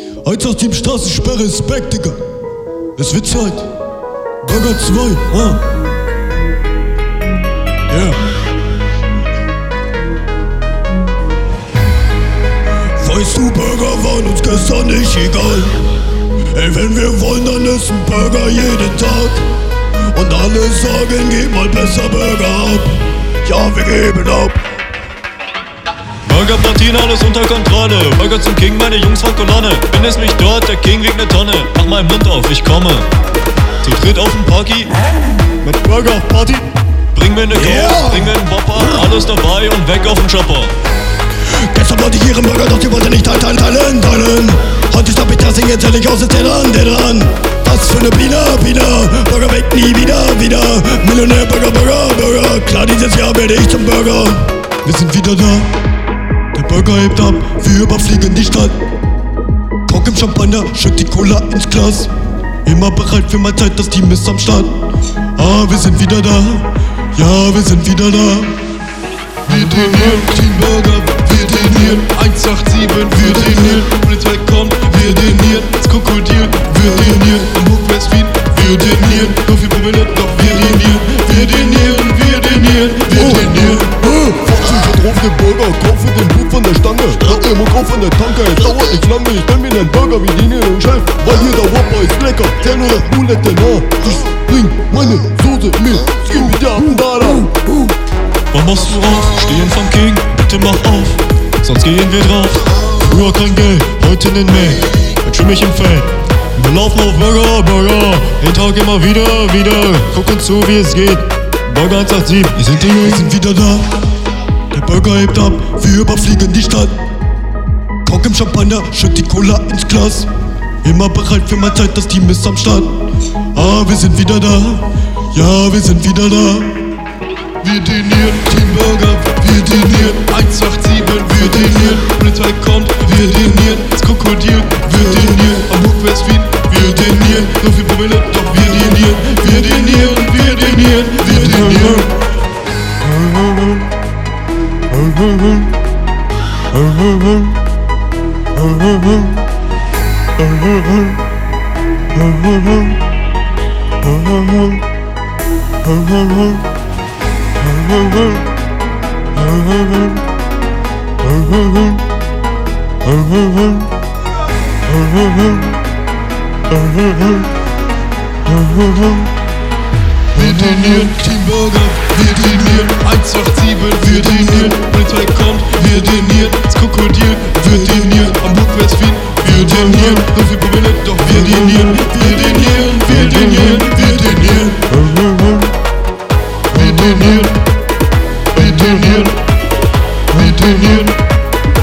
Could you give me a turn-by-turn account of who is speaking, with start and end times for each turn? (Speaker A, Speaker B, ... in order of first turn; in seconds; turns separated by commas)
Speaker A: 0.2-2.2, Speaker A: 3.0-3.7, Speaker A: 4.4-5.6, Speaker A: 7.9-8.2, Speaker A: 13.0-15.8, Speaker A: 16.5-19.4, Speaker A: 20.1-24.6, Speaker B: 26.2-33.1, Speaker B: 33.8-34.9, Speaker B: 35.6-40.7, Speaker A: 37.5-38.3, Speaker A: 41.6-55.7, Speaker A: 56.5-58.8, Speaker A: 59.9-62.1, Speaker A: 62.6-64.8, Speaker A: 65.3-68.6, Speaker C: 69.4-83.9, Speaker D: 84.0-97.5, Speaker B: 98.5-113.3, Speaker A: 113.0-113.8, Speaker A: 114.7-116.9, Speaker A: 118.0-120.3, Speaker A: 120.8-123.0, Speaker A: 123.5-126.8, Speaker C: 127.6-142.1, Speaker C: 170.3-184.9, Speaker C: 186.7-187.6, Speaker C: 188.5-189.3, Speaker C: 190.3-191.1